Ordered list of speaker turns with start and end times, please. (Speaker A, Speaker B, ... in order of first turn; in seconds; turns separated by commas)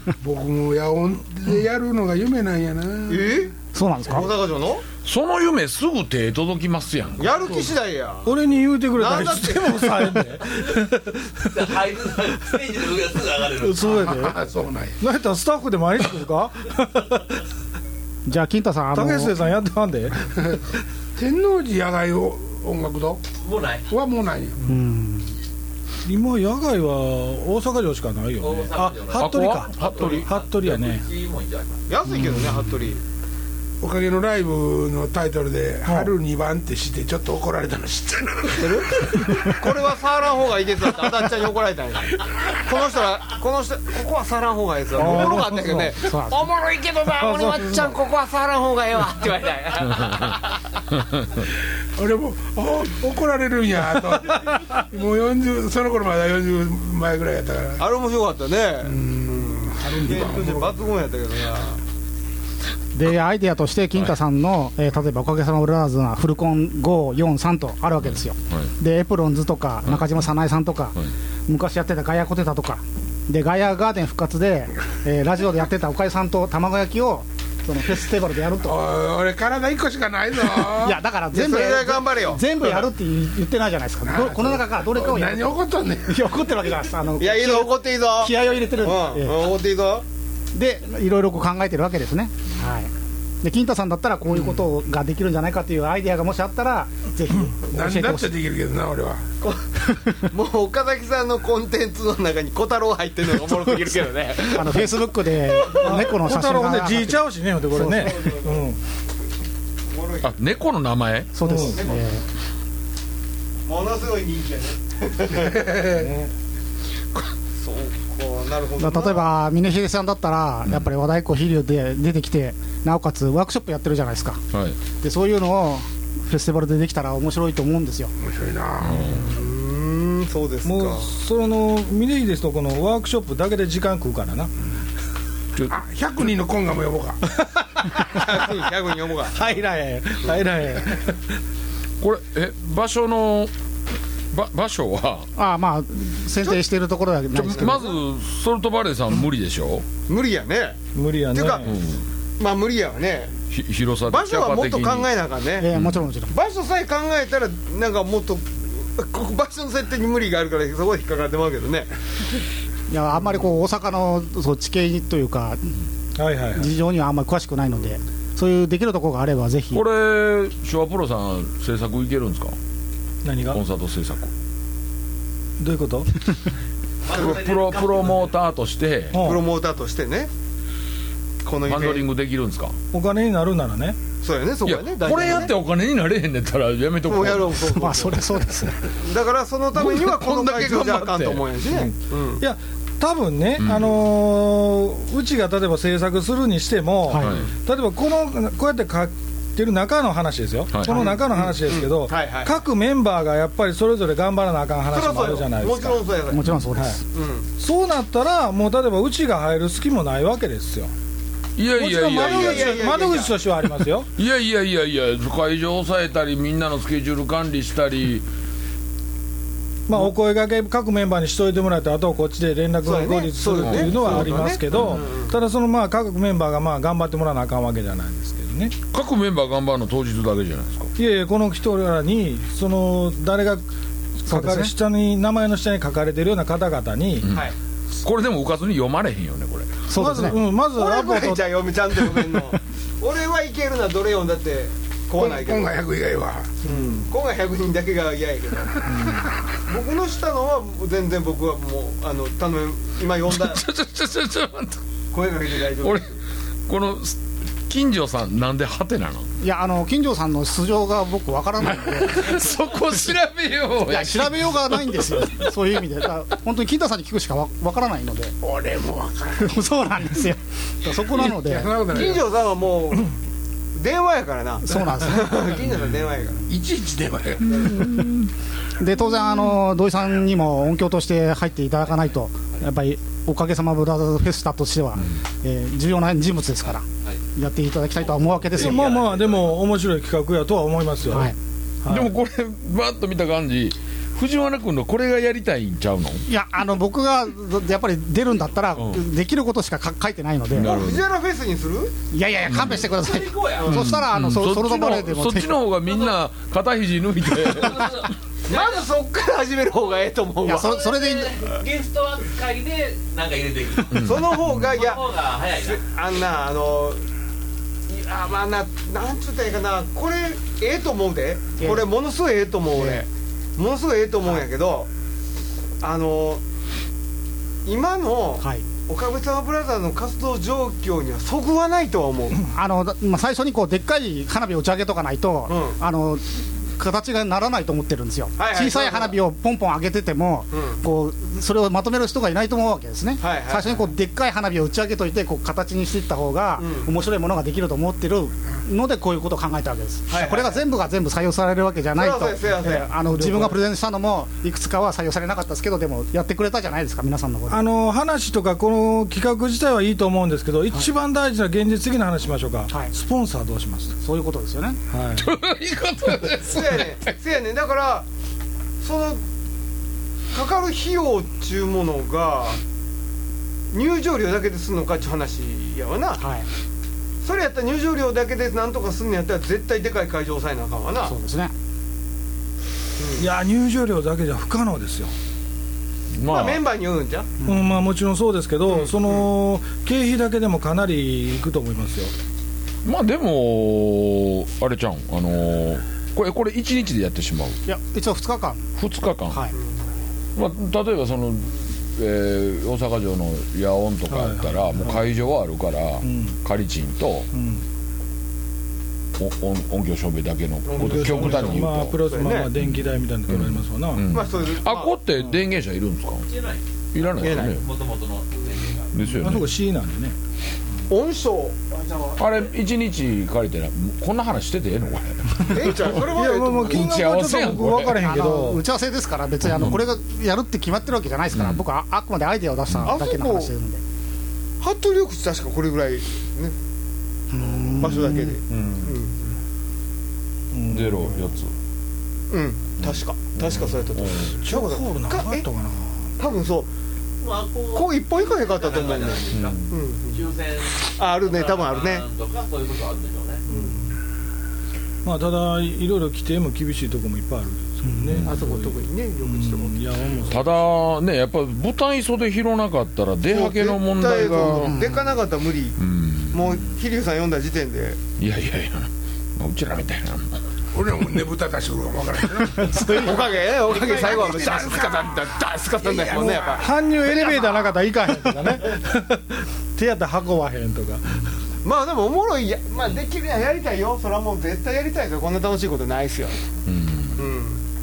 Speaker A: 0.2-3.3, Speaker B: 3.1-3.5, Speaker C: 3.7-4.4, Speaker B: 4.1-4.8, Speaker D: 5.0-7.3, Speaker B: 7.2-8.4, Speaker E: 8.2-11.2, Speaker B: 8.9-10.4, Speaker F: 11.4-13.8, Speaker E: 13.5-14.4, Speaker A: 13.8-15.0, Speaker E: 15.0-17.4, Speaker C: 18.3-19.4, Speaker E: 18.9-20.3, Speaker A: 20.3-20.6, Speaker A: 21.2-23.2, Speaker F: 23.4-24.0, Speaker A: 23.9-24.6, Speaker C: 24.7-25.3, Speaker E: 26.1-31.0, Speaker F: 28.4-31.8, Speaker D: 29.1-30.3, Speaker B: 31.9-33.0, Speaker A: 33.8-39.2, Speaker B: 38.5-50.4, Speaker E: 45.0-45.9, Speaker C: 46.0-46.4, Speaker E: 47.2-47.8, Speaker A: 52.0-57.8, Speaker B: 57.8-61.8, Speaker A: 58.8-60.8, Speaker C: 63.0-78.8, Speaker D: 68.1-68.7, Speaker A: 78.7-81.0, Speaker C: 80.6-89.5, Speaker B: 81.3-82.5, Speaker A: 84.1-86.2, Speaker B: 87.2-90.0, Speaker C: 90.5-98.3, Speaker A: 97.7-99.2, Speaker B: 99.4-99.7, Speaker C: 99.9-100.2, Speaker B: 100.2-105.9, Speaker C: 104.4-107.3, Speaker E: 105.7-108.8, Speaker B: 107.7-108.7, Speaker B: 109.9-110.4, Speaker D: 110.2-111.4, Speaker C: 111.3-112.2, Speaker E: 111.4-111.8, Speaker B: 111.6-112.2, Speaker B: 113.7-115.7, Speaker A: 115.3-116.1, Speaker E: 116.0-116.3, Speaker B: 117.6-119.2, Speaker C: 118.8-124.4, Speaker D: 124.5-124.8, Speaker C: 125.0-128.1, Speaker A: 128.2-129.3, Speaker D: 128.8-129.3, Speaker B: 129.2-131.1, Speaker E: 130.6-134.5, Speaker A: 135.7-137.2, Speaker E: 137.4-138.4, Speaker B: 138.1-139.4, Speaker E: 139.3-141.2, Speaker D: 142.0-143.5, Speaker D: 144.3-145.3, Speaker C: 145.4-147.9, Speaker D: 147.3-149.9, Speaker B: 147.5-147.9, Speaker B: 150.1-150.8, Speaker E: 150.9-151.8, Speaker B: 151.3-151.7, Speaker D: 151.7-152.0, Speaker B: 152.4-153.4, Speaker D: 153.5-155.1, Speaker B: 154.1-155.7, Speaker C: 155.6-156.3, Speaker D: 155.7-156.0, Speaker B: 156.3-161.9, Speaker C: 162.9-165.7, Speaker E: 166.2-166.7, Speaker C: 166.6-169.8, Speaker D: 169.7-172.6, Speaker E: 173.2-173.6, Speaker D: 173.5-174.3, Speaker E: 175.6-176.1, Speaker F: 177.0-178.3, Speaker D: 177.1-179.3, Speaker E: 179.1-179.4, Speaker B: 179.2-180.3, Speaker B: 181.4-182.1, Speaker D: 181.7-182.8, Speaker E: 182.9-184.0, Speaker B: 184.2-185.6, Speaker D: 184.7-187.9, Speaker B: 187.0-188.3, Speaker C: 187.8-188.9, Speaker B: 188.9-192.4, Speaker D: 189.7-191.5, Speaker E: 191.7-206.0, Speaker D: 193.6-194.0, Speaker C: 197.1-197.4, Speaker D: 197.2-197.5, Speaker D: 200.7-201.1, Speaker B: 200.9-202.6, Speaker B: 204.9-206.5, Speaker C: 206.3-207.0, Speaker E: 206.8-207.0, Speaker B: 207.1-207.5, Speaker E: 207.6-210.9, Speaker D: 211.6-212.9, Speaker E: 211.8-214.1, Speaker B: 212.0-213.4, Speaker D: 214.2-218.3, Speaker E: 219.9-228.8, Speaker B: 222.8-225.4, Speaker D: 223.5-225.1, Speaker D: 228.9-230.9, Speaker E: 231.0-233.6, Speaker E: 234.2-237.3, Speaker C: 234.3-234.7, Speaker D: 237.2-239.8, Speaker C: 239.9-240.4, Speaker E: 240.0-241.6, Speaker B: 240.8-245.8, Speaker A: 245.2-246.6, Speaker B: 246.7-253.6, Speaker E: 248.9-249.3, Speaker D: 253.3-254.8, Speaker B: 255.1-256.2, Speaker D: 255.8-256.1, Speaker D: 256.7-259.3, Speaker C: 259.4-262.4, Speaker D: 261.8-264.6, Speaker C: 263.9-268.4, Speaker A: 268.4-269.6, Speaker C: 269.4-271.7, Speaker A: 271.1-272.3, Speaker B: 271.9-273.1, Speaker B: 273.8-276.5, Speaker C: 274.6-275.6, Speaker A: 276.5-277.7, Speaker B: 277.5-277.8, Speaker C: 278.8-288.9, Speaker F: 288.5-289.6, Speaker E: 288.5-292.1, Speaker C: 291.1-291.4, Speaker D: 291.9-296.2, Speaker C: 296.3-300.8, Speaker D: 300.6-301.1, Speaker B: 300.6-301.9, Speaker C: 302.1-305.6, Speaker D: 302.5-302.9, Speaker F: 302.7-303.9, Speaker D: 303.6-308.1, Speaker F: 305.9-306.2, Speaker F: 307.4-308.8, Speaker B: 308.5-310.8, Speaker C: 310.4-311.4, Speaker F: 310.6-315.8, Speaker D: 313.9-314.7, Speaker B: 313.9-317.0, Speaker B: 317.9-324.9, Speaker C: 321.6-321.9, Speaker C: 322.7-323.1, Speaker B: 325.8-326.4, Speaker B: 327.6-332.5, Speaker C: 328.4-328.7, Speaker C: 332.5-357.6, Speaker B: 335.5-335.8, Speaker B: 338.4-339.2, Speaker B: 340.5-340.8, Speaker B: 343.2-343.9, Speaker B: 346.6-346.9, Speaker B: 350.1-350.6, Speaker B: 351.9-352.9, Speaker E: 353.1-353.6, Speaker E: 357.5-364.0, Speaker C: 364.0-364.8, Speaker E: 364.9-365.3, Speaker D: 365.2-367.1, Speaker B: 366.4-368.1, Speaker B: 368.8-369.2, Speaker B: 370.3-372.6, Speaker B: 373.7-376.2, Speaker C: 376.2-376.5, Speaker B: 377.2-381.1, Speaker C: 381.0-381.5, Speaker B: 383.0-383.3, Speaker E: 383.2-385.1, Speaker D: 386.2-386.6, Speaker B: 386.2-387.3, Speaker C: 387.4-387.7, Speaker E: 387.4-392.1, Speaker B: 388.7-389.2, Speaker D: 392.9-397.6, Speaker C: 397.7-398.7, Speaker D: 398.8-399.4, Speaker D: 400.4-407.3, Speaker E: 404.1-405.0, Speaker E: 406.0-406.4, Speaker E: 407.3-407.6, Speaker D: 409.2-412.0, Speaker B: 410.7-412.5, Speaker E: 410.8-414.1, Speaker D: 412.6-416.3, Speaker B: 414.1-415.0, Speaker F: 416.3-416.6, Speaker D: 416.9-417.6, Speaker B: 417.2-417.6, Speaker F: 417.3-418.9, Speaker D: 418.9-419.5, Speaker E: 419.2-420.2, Speaker B: 420.9-422.4, Speaker D: 422.2-428.1, Speaker B: 425.4-427.1, Speaker E: 425.9-428.6, Speaker C: 428.0-433.8, Speaker D: 429.4-429.8, Speaker D: 431.3-431.6, Speaker B: 432.8-433.5, Speaker B: 434.6-436.6, Speaker C: 437.3-438.3, Speaker B: 437.8-439.3, Speaker D: 438.5-439.0, Speaker E: 440.5-441.4, Speaker D: 440.7-441.5, Speaker B: 442.3-445.5, Speaker D: 442.8-444.3, Speaker E: 444.4-446.1, Speaker B: 446.2-446.7, Speaker F: 447.2-449.6, Speaker B: 447.7-450.2, Speaker D: 449.3-449.8, Speaker F: 450.1-453.4, Speaker B: 450.9-452.1, Speaker E: 453.5-453.8, Speaker E: 455.1-460.7, Speaker C: 457.9-458.1, Speaker D: 458.1-458.6, Speaker B: 458.2-459.8, Speaker D: 460.2-464.8, Speaker B: 463.3-465.8, Speaker C: 464.4-465.2, Speaker D: 465.8-466.6, Speaker B: 466.3-468.0, Speaker D: 468.2-470.4, Speaker A: 470.7-476.7, Speaker C: 472.6-473.2, Speaker B: 472.7-476.7, Speaker E: 476.6-481.2, Speaker B: 477.2-477.5, Speaker B: 481.6-486.5, Speaker D: 486.7-487.3, Speaker B: 487.2-487.6